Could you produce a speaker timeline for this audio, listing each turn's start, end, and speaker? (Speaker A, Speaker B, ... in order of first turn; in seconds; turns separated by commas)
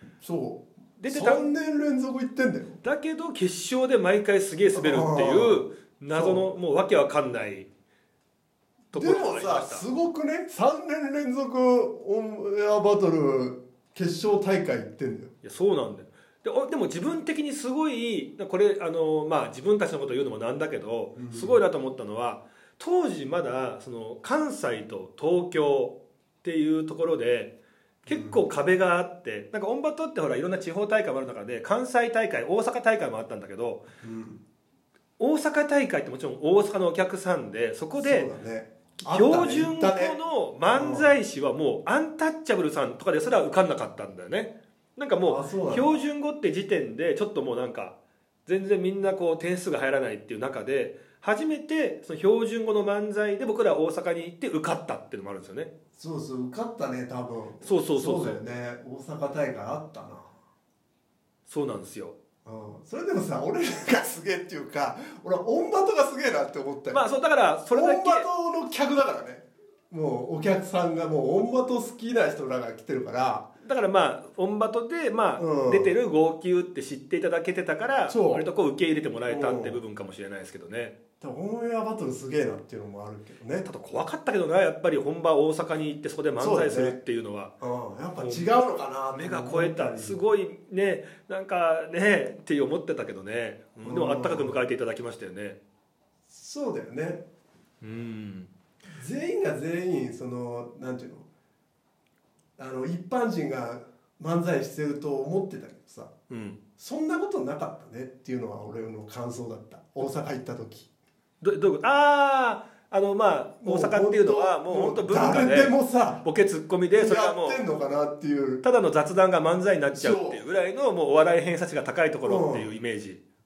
Speaker A: 0.2-2.8, Speaker B: 1.0-1.5, Speaker B: 2.8-7.7, Speaker A: 4.7-6.5, Speaker B: 8.9-9.8, Speaker A: 8.9-15.3, Speaker B: 15.4-33.8, Speaker A: 21.1-21.6, Speaker A: 28.1-28.4, Speaker A: 34.0-34.4, Speaker B: 35.2-38.3, Speaker A: 38.0-40.2, Speaker B: 39.0-55.7, Speaker A: 40.7-41.1, Speaker A: 45.2-46.0, Speaker A: 56.0-60.4, Speaker B: 57.6-58.4, Speaker B: 61.5-62.2, Speaker A: 62.4-67.0, Speaker B: 66.9-68.3, Speaker A: 67.7-73.5, Speaker B: 73.6-81.0, Speaker A: 75.4-75.9, Speaker A: 78.1-78.5, Speaker A: 79.3-79.8, Speaker A: 81.2-83.7, Speaker B: 83.6-87.5, Speaker A: 86.4-87.0, Speaker A: 87.6-90.2, Speaker B: 88.2-88.5, Speaker B: 89.1-95.6, Speaker A: 93.8-94.6, Speaker A: 96.3-97.2, Speaker B: 97.8-98.5, Speaker A: 98.9-101.3, Speaker A: 102.6-106.1, Speaker B: 106.3-106.6, Speaker A: 106.8-110.9, Speaker B: 111.4-117.6, Speaker A: 113.6-116.2, Speaker A: 116.9-118.6, Speaker B: 118.6-123.2, Speaker A: 119.9-120.4, Speaker A: 122.2-122.7